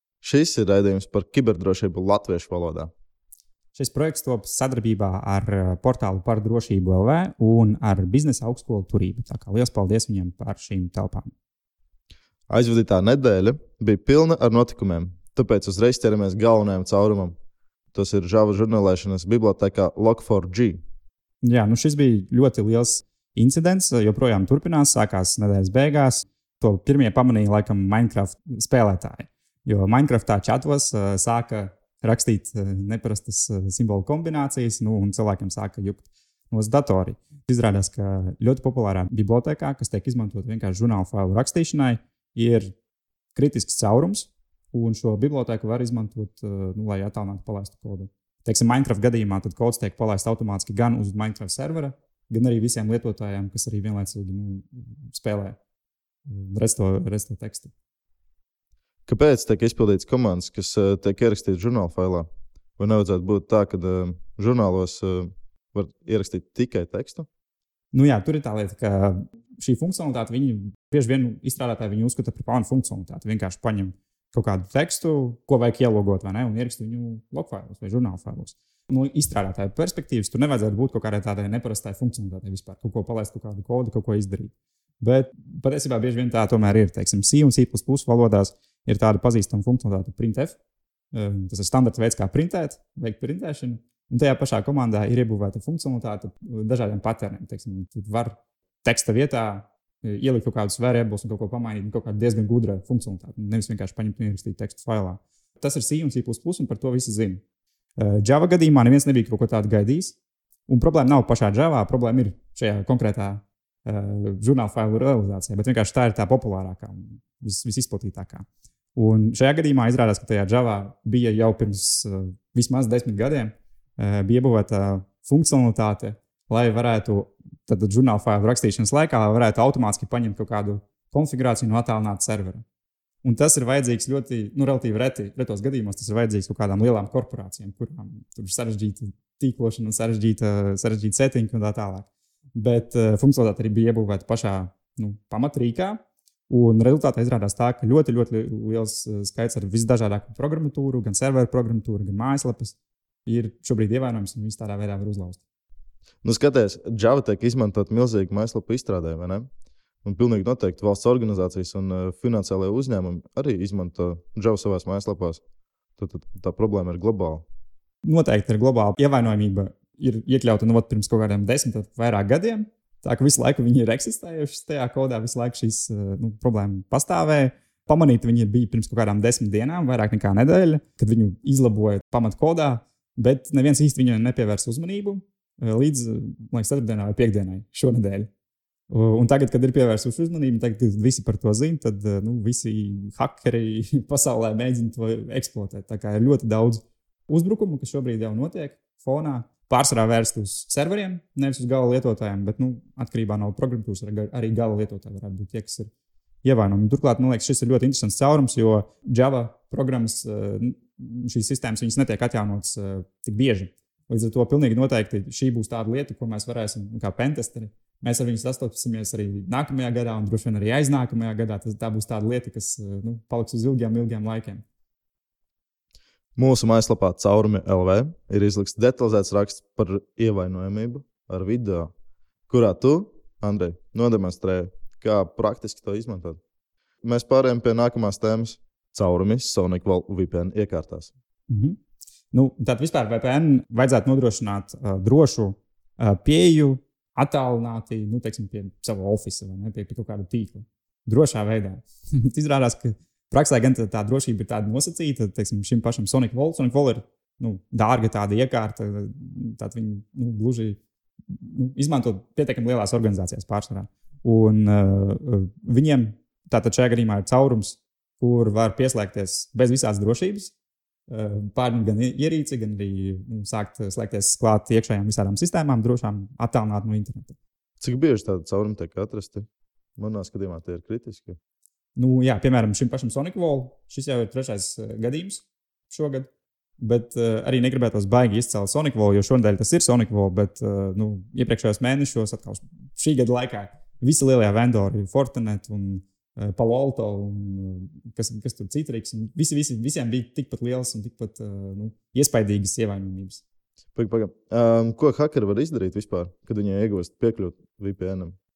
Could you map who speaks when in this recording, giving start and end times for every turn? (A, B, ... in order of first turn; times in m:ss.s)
0:00.2-0:02.9 A
0:03.7-0:11.3 B
0:12.5-0:17.4 A
0:17.9-0:20.8 A
0:21.4-0:42.7 B
0:43.3-0:55.6 B
0:56.2-0:57.7 B
0:59.1-1:07.3 A
1:07.9-1:30.6 B
1:31.1-1:47.4 B
1:48.0-1:50.2 B
1:50.7-2:12.6 B
2:13.2-2:35.4 B
2:36.2-2:39.5 A
2:40.0-2:45.4 A
2:46.0-2:47.4 A
2:48.0-3:08.3 B
3:08.9-3:25.9 B
3:26.4-3:44.6 B
3:46.4-3:51.9 A
3:52.5-3:56.4 A
3:57.0-4:01.1 A
4:01.5-4:01.8 B
4:02.3-4:30.5 B
4:31.1-4:37.4 B
4:37.8-4:39.4 A
4:40.0-4:41.4 A
4:42.0-5:03.4 B
5:03.9-5:08.4 A